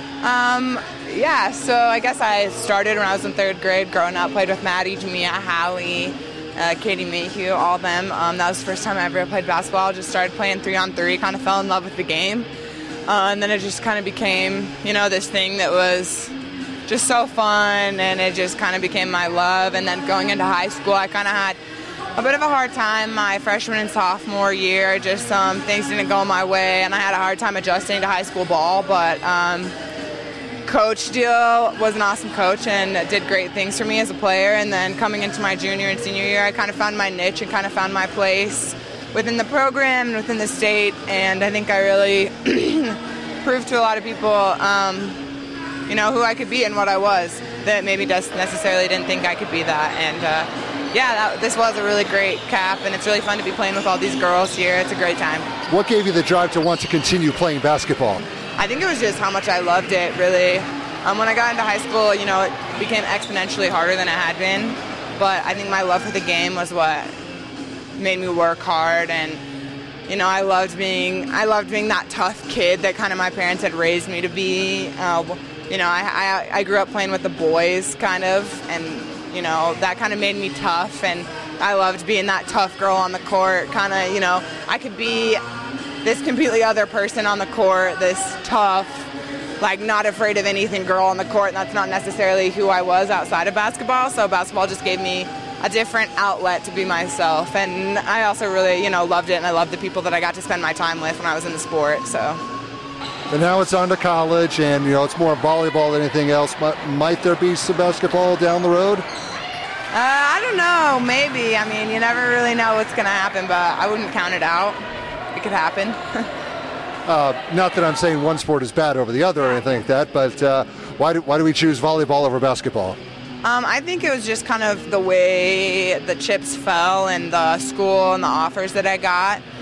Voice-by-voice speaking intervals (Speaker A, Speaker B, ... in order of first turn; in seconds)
Speaker A: 0.2-12.5, 13.1-16.3, 16.9-21.6, 22.2-29.7, 30.6-45.2, 45.9-55.5, 58.6-67.1, 68.0-69.4, 70.1-85.4, 86.0-89.1, 89.6-102.4, 109.9-114.8, 115.3-116.3, 123.4-129.4
Speaker B: 55.7-58.2, 103.3-109.0, 117.1-123.0